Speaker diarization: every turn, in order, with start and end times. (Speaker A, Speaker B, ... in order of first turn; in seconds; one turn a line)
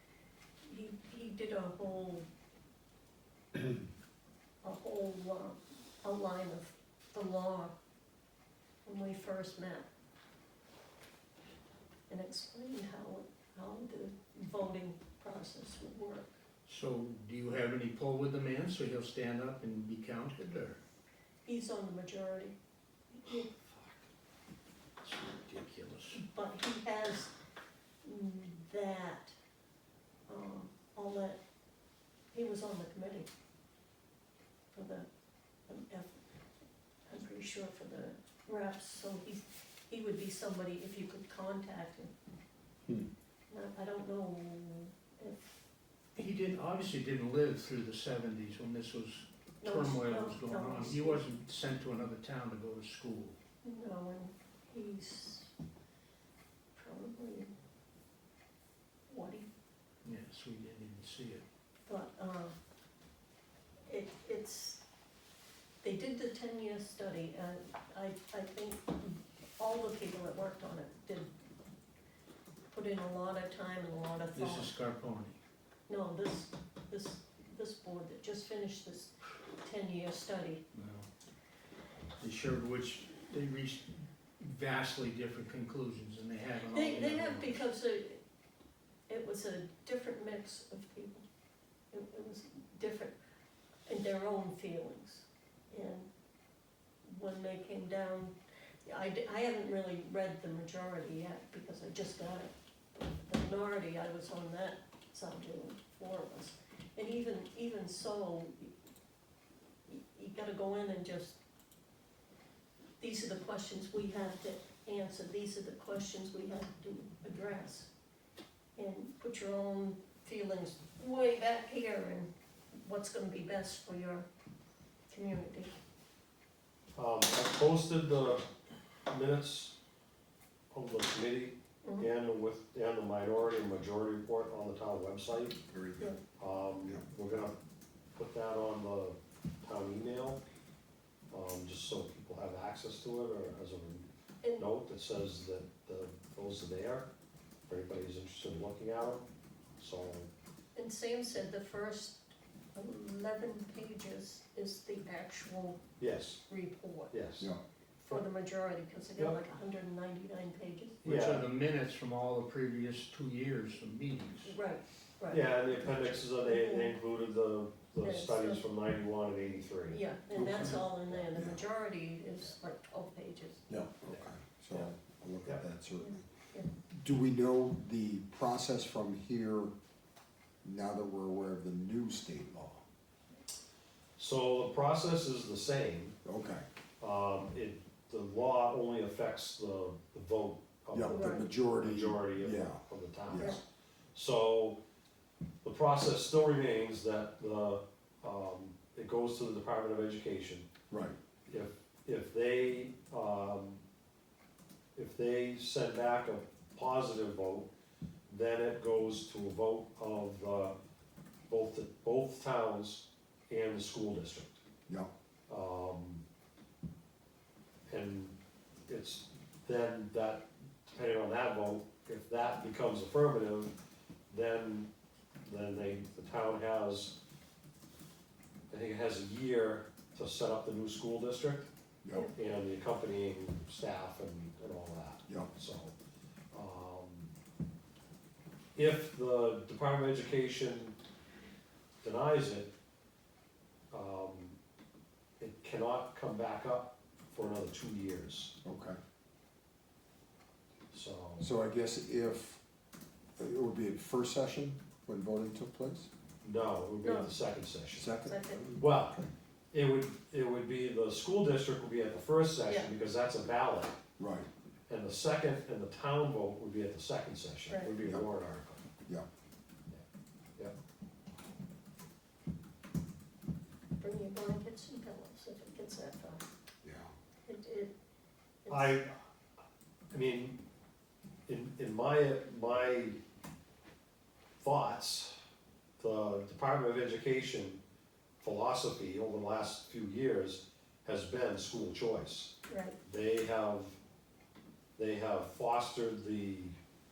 Speaker A: 0.7-2.3
Speaker A: 4.6-7.7
Speaker A: 8.8-9.9
Speaker A: 12.1-16.3
Speaker B: 16.7-20.8
Speaker A: 21.5-22.6
Speaker A: 23.1-23.5
Speaker B: 23.3-24.0
Speaker B: 25.0-26.2
Speaker A: 26.1-27.3
Speaker A: 28.0-29.4
Speaker A: 30.3-31.4
Speaker A: 32.3-33.3
Speaker A: 34.7-35.1
Speaker A: 35.7-36.2
Speaker A: 37.1-42.1
Speaker A: 43.5-45.7
Speaker B: 46.2-53.4
Speaker A: 49.6-51.3
Speaker A: 53.6-55.5
Speaker A: 56.8-57.5
Speaker A: 59.1-59.5
Speaker B: 60.0-61.4
Speaker A: 61.9-62.5
Speaker A: 63.9-64.8
Speaker A: 65.8-71.3
Speaker A: 72.7-74.7
Speaker B: 74.3-75.4
Speaker A: 75.9-80.6
Speaker B: 80.7-81.1
Speaker B: 82.2-87.6
Speaker A: 86.7-88.2
Speaker A: 89.1-91.3
Speaker A: 91.9-93.2
Speaker A: 93.9-96.1
Speaker A: 97.0-108.7
Speaker A: 109.9-111.4
Speaker A: 113.0-117.9
Speaker A: 118.8-124.3
Speaker A: 125.1-125.8
Speaker C: 127.0-128.4
Speaker C: 129.1-129.8
Speaker C: 130.7-135.6
Speaker A: 131.8-132.1
Speaker D: 135.7-136.2
Speaker C: 136.4-137.6
Speaker C: 138.2-140.4
Speaker C: 141.3-147.1
Speaker A: 144.4-144.7
Speaker C: 147.7-149.3
Speaker C: 149.8-150.3
Speaker A: 150.8-155.8
Speaker C: 156.0-156.4
Speaker A: 156.5-157.1
Speaker C: 157.1-157.5
Speaker A: 158.0-161.0
Speaker B: 161.0-164.5
Speaker C: 161.0-161.5
Speaker A: 164.4-167.0
Speaker C: 165.3-170.0
Speaker A: 168.0-168.6
Speaker A: 169.9-173.6
Speaker D: 170.3-171.6
Speaker D: 173.7-176.2
Speaker C: 174.1-174.9
Speaker A: 176.0-176.7
Speaker D: 176.9-179.7
Speaker D: 180.6-182.8
Speaker C: 184.2-186.2
Speaker D: 186.2-186.6
Speaker C: 187.0-193.6
Speaker D: 190.9-193.6
Speaker A: 191.0-191.5
Speaker C: 194.1-194.8
Speaker C: 195.6-200.7
Speaker D: 200.9-201.2
Speaker C: 201.5-203.8
Speaker C: 204.9-207.7
Speaker C: 208.3-210.8
Speaker C: 211.5-214.6
Speaker C: 215.5-216.2
Speaker C: 217.9-218.4
Speaker C: 218.9-223.7
Speaker C: 224.3-224.9
Speaker C: 225.4-227.2
Speaker C: 228.7-231.7
Speaker D: 232.0-232.3
Speaker C: 232.3-235.9
Speaker C: 236.5-237.3
Speaker C: 238.8-241.0
Speaker C: 242.0-242.7
Speaker C: 243.9-244.6
Speaker C: 245.4-248.6
Speaker D: 248.6-249.0
Speaker C: 250.9-251.5
Speaker D: 251.4-252.6
Speaker D: 253.4-256.1
Speaker C: 256.4-258.1
Speaker A: 257.0-257.3
Speaker D: 257.9-259.3
Speaker A: 258.3-258.6
Speaker C: 258.8-264.0
Speaker A: 262.7-262.9
Speaker D: 264.2-264.5
Speaker C: 264.9-268.8
Speaker A: 267.7-267.9
Speaker A: 274.0-276.4
Speaker D: 276.8-277.1
Speaker A: 277.5-277.9
Speaker A: 278.6-279.0
Speaker C: 278.7-279.1
Speaker C: 280.1-280.6
Speaker C: 281.5-283.2
Speaker C: 284.6-285.4
Speaker C: 286.0-287.8
Speaker C: 288.4-294.0
Speaker A: 292.7-293.0
Speaker C: 295.0-296.8